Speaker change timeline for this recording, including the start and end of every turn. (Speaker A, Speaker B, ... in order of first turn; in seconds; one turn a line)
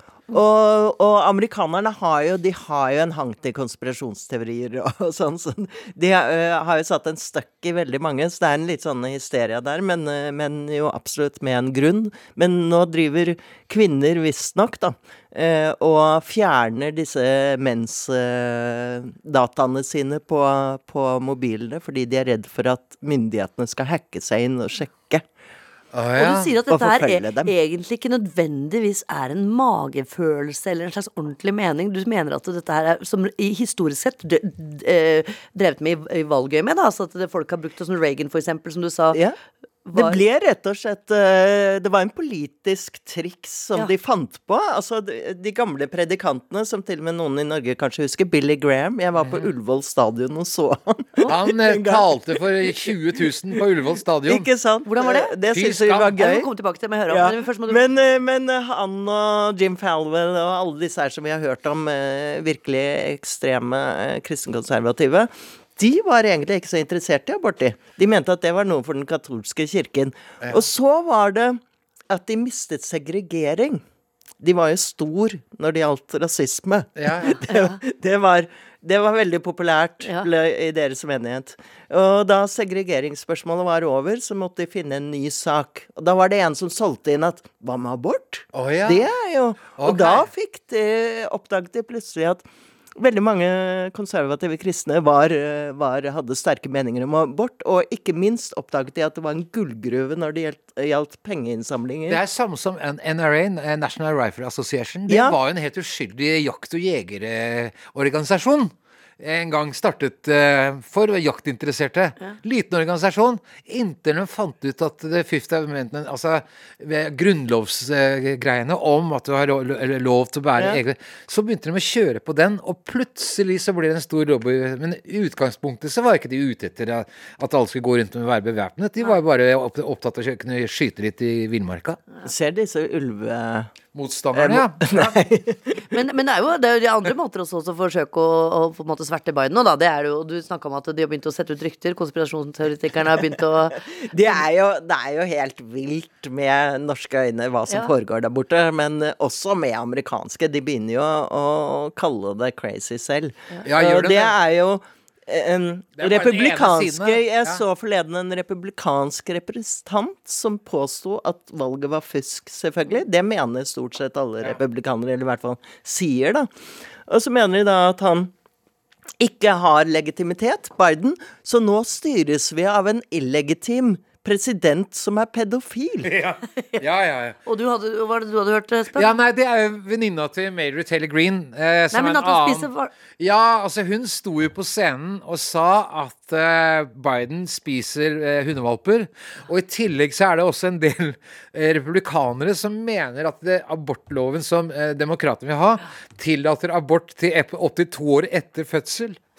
Speaker A: 0.3-25.2
Speaker B: 25.9-26.5
Speaker C: 26.2-39.2
Speaker A: 26.7-27.5
Speaker C: 39.8-40.2
Speaker A: 39.9-52.9
Speaker B: 49.2-49.5
Speaker B: 51.3-54.5
Speaker A: 54.3-56.5
Speaker C: 54.9-55.3
Speaker B: 55.5-56.1
Speaker C: 56.1-57.9
Speaker A: 57.1-73.8
Speaker B: 70.4-70.7
Speaker A: 74.4-92.4
Speaker B: 77.0-77.4
Speaker C: 77.2-77.8
Speaker C: 80.0-80.3
Speaker B: 88.5-89.1
Speaker B: 89.8-90.3
Speaker A: 93.0-102.2
Speaker B: 102.1-132.0
Speaker A: 105.1-105.3
Speaker A: 132.2-133.7
Speaker B: 133.9-135.3
Speaker A: 134.3-135.8
Speaker C: 135.9-143.8
Speaker A: 143.8-166.5
Speaker B: 153.6-154.3
Speaker B: 156.0-157.6
Speaker A: 167.1-168.3
Speaker A: 169.2-176.1
Speaker B: 176.0-177.4
Speaker C: 176.6-176.8
Speaker C: 177.4-179.2
Speaker B: 178.9-199.2
Speaker C: 181.9-182.9